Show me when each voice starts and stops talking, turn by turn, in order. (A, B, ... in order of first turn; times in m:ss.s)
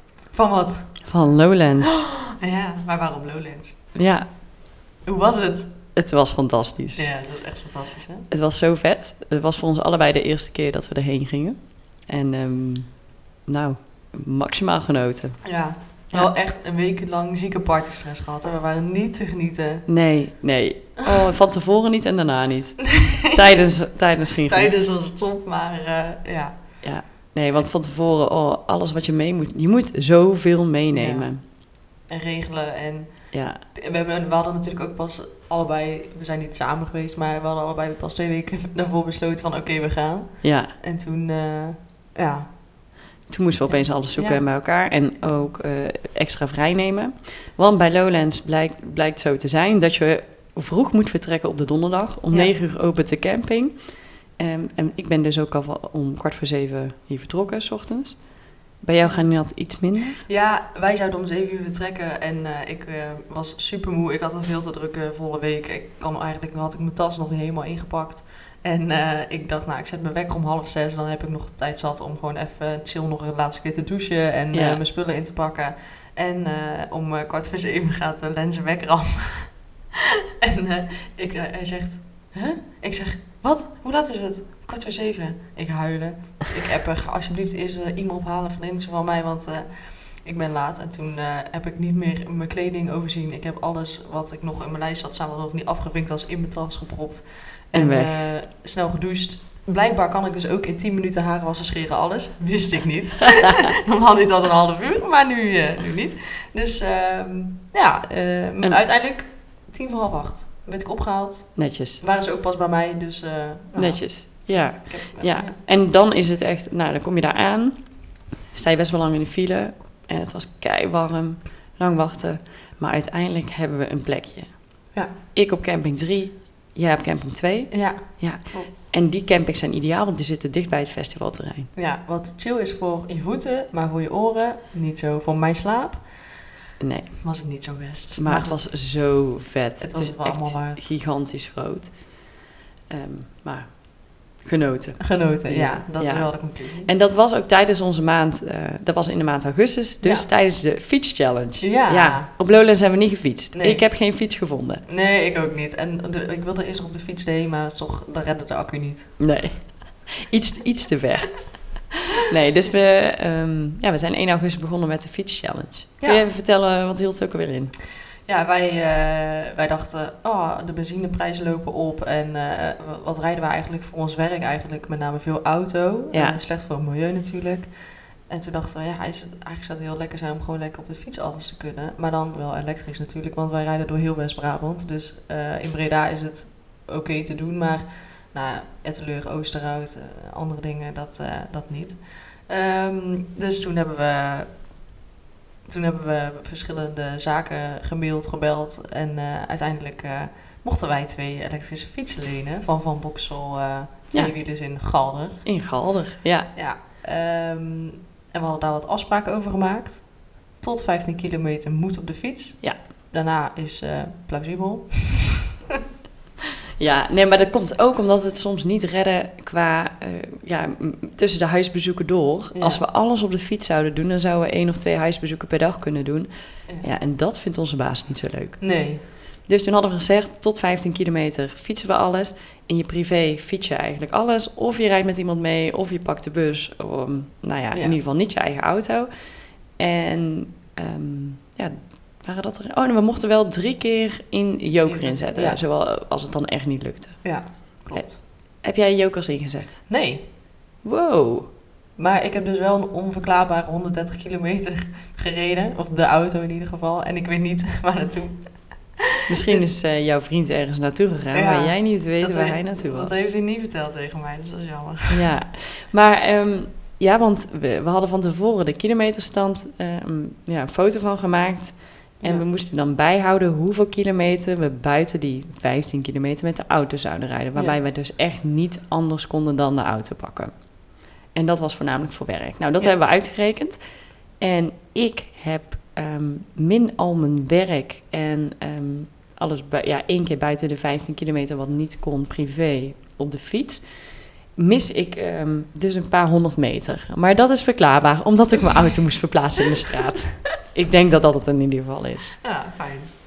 0:00.3-0:04.0 A
0:01.1-0:02.0 B
0:04.0-0:04.3 B
0:05.0-0:05.8 A
0:05.9-0:07.1 B
0:07.0-0:08.3 A
0:08.3-0:16.3 B
0:15.4-0:20.0 A
0:19.9-0:24.8 B
0:24.5-0:27.7 A
0:26.8-0:31.4 B
0:30.9-0:42.6 A
0:33.3-0:33.6 B
0:40.4-0:40.7 B
0:43.3-1:00.2 B
0:43.7-0:45.5 A
0:59.0-1:19.9 A
1:14.5-1:14.8 B
1:20.4-1:55.6 A
1:37.8-1:38.2 B
1:51.6-1:52.0 B
1:53.8-2:11.7 B
2:07.7-2:08.8 A
2:11.8-2:16.4 A
2:16.8-2:22.4 B
2:17.2-2:18.7 A
2:19.8-2:20.9 A
2:22.9-2:34.8 B
2:25.0-2:26.9 A
2:30.0-2:30.3 A
2:31.6-2:32.3 A
2:33.5-2:33.9 A
2:34.9-2:39.4 A
2:39.2-2:41.8 B
2:42.3-2:47.8 B
2:46.0-2:46.3 A
2:48.2-3:14.6 A
2:56.1-2:56.4 B
3:15.7-3:25.5 A
3:25.4-3:26.5 B
3:26.5-3:35.4 A
3:36.8-4:09.9 B
3:42.5-3:42.8 A
3:48.6-3:49.0 A
3:57.7-3:58.0 A
4:04.8-4:05.6 A
4:07.2-4:08.2 A
4:09.9-4:10.2 A
4:10.8-4:11.5 B
4:12.0-4:19.6 A
4:19.3-4:23.2 B
4:21.3-4:25.3 A
4:25.1-5:02.4 B
4:32.2-4:32.5 A
5:02.4-5:03.2 A